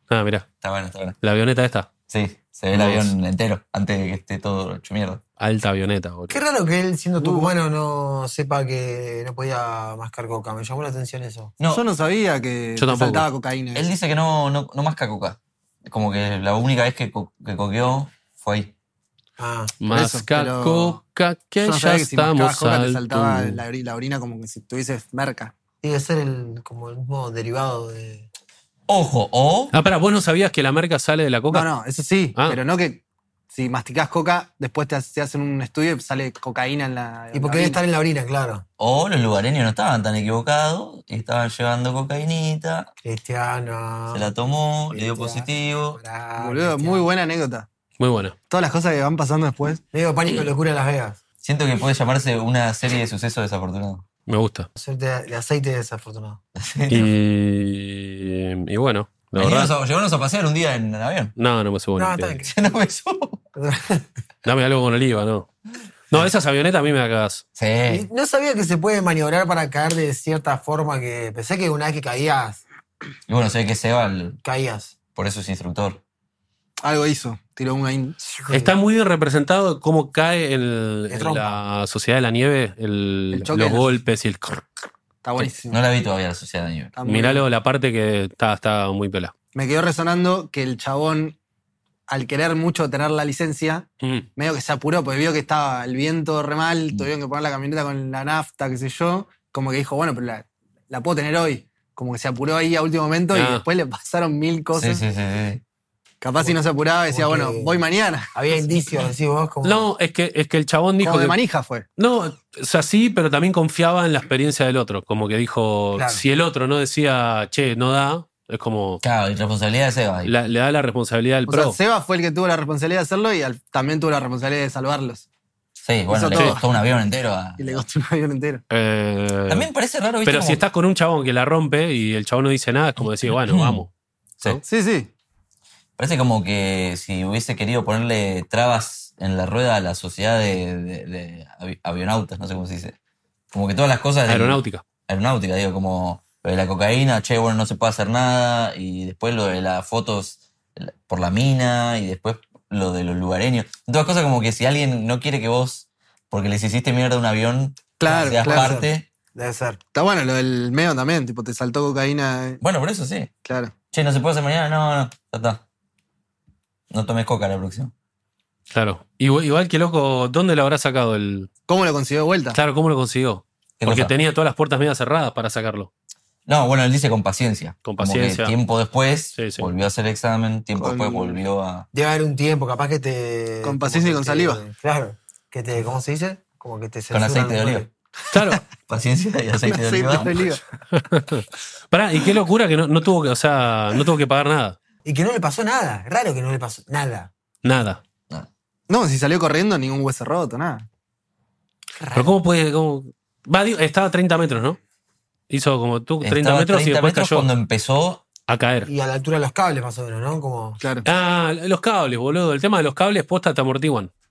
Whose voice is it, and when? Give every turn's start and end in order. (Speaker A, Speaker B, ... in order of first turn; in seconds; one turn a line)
Speaker A: 0.1-0.5
Speaker B: 0.6-1.1
Speaker A: 1.2-1.9
Speaker B: 2.1-5.2
Speaker A: 2.8-3.1
Speaker A: 5.4-6.4
Speaker C: 6.3-11.5
Speaker D: 7.2-7.5
Speaker B: 11.6-11.8
Speaker D: 11.7-13.9
Speaker A: 12.8-13.3
Speaker B: 13.8-18.7
Speaker C: 19.4-19.7
Speaker A: 19.8-23.6
Speaker D: 19.9-21.0
Speaker D: 21.6-25.5
Speaker C: 25.8-28.3
Speaker B: 28.9-29.7
Speaker A: 29.7-31.7
Speaker D: 31.5-37.8
Speaker C: 37.3-38.6
Speaker B: 38.8-42.9
Speaker C: 43.0-47.1
Speaker B: 44.1-46.0
Speaker D: 46.4-47.7
Speaker A: 48.0-48.4
Speaker D: 48.5-49.8
Speaker C: 49.9-51.2
Speaker B: 51.4-54.0
Speaker A: 54.3-54.7
Speaker C: 54.8-56.4
Speaker B: 56.5-57.1
Speaker A: 56.9-59.8
Speaker B: 59.4-61.3
Speaker A: 61.4-62.4
Speaker C: 62.0-62.5
Speaker B: 62.4-63.4
Speaker C: 63.5-64.0
Speaker A: 64.4-65.5
Speaker A: 66.1-67.4
Speaker B: 67.5-68.0
Speaker C: 67.9-72.6
Speaker B: 73.3-74.4
Speaker C: 74.4-74.9
Speaker B: 75.1-76.0
Speaker D: 76.8-78.2
Speaker C: 78.3-78.7
Speaker A: 78.5-84.7
Speaker C: 81.1-81.6
Speaker D: 83.3-83.9
Speaker D: 85.2-85.8
Speaker B: 85.4-86.9
Speaker D: 87.0-87.5
Speaker A: 87.0-89.3
Speaker D: 89.5-91.4
Speaker D: 92.1-105.0
Speaker A: 103.3-103.6
Speaker B: 104.7-105.6
Speaker D: 106.2-108.3
Speaker C: 107.1-107.8
Speaker C: 108.3-109.9
Speaker A: 109.6-111.4
Speaker D: 111.0-111.9
Speaker A: 112.0-119.0
Speaker C: 115.9-116.2
Speaker B: 119.0-120.3
Speaker A: 120.2-121.8
Speaker D: 121.5-125.3
Speaker B: 125.8-127.8
Speaker D: 126.1-126.8
Speaker A: 126.3-126.6
Speaker D: 127.6-128.6
Speaker A: 128.7-129.7
Speaker B: 129.5-130.6
Speaker A: 130.2-134.6
Speaker B: 133.3-133.8
Speaker D: 134.6-135.1
Speaker B: 136.0-143.0
Speaker B: 143.5-159.1
Speaker A: 144.3-144.8
Speaker D: 158.0-158.8
Speaker C: 158.1-159.8
Speaker D: 159.9-162.6
Speaker B: 162.6-163.3
Speaker D: 163.4-163.7
Speaker B: 163.9-165.6
Speaker B: 166.9-167.9
Speaker A: 168.7-171.5
Speaker D: 171.7-172.6
Speaker A: 172.5-175.9
Speaker B: 173.8-174.1
Speaker B: 176.5-181.9
Speaker A: 177.8-178.6
Speaker A: 179.3-179.7
Speaker D: 180.8-181.4
Speaker C: 181.9-187.9
Speaker D: 183.6-184.6
Speaker B: 187.1-187.9
Speaker A: 188.3-188.6
Speaker B: 188.9-190.4
Speaker D: 189.6-190.6
Speaker A: 190.9-194.8
Speaker C: 195.0-197.3
Speaker A: 197.6-198.0
Speaker D: 198.9-200.9
Speaker C: 202.0-202.3
Speaker A: 202.1-204.8
Speaker A: 205.5-207.5
Speaker B: 206.2-208.2
Speaker A: 208.5-208.9
Speaker C: 208.8-210.8
Speaker D: 210.8-211.1
Speaker A: 211.0-214.1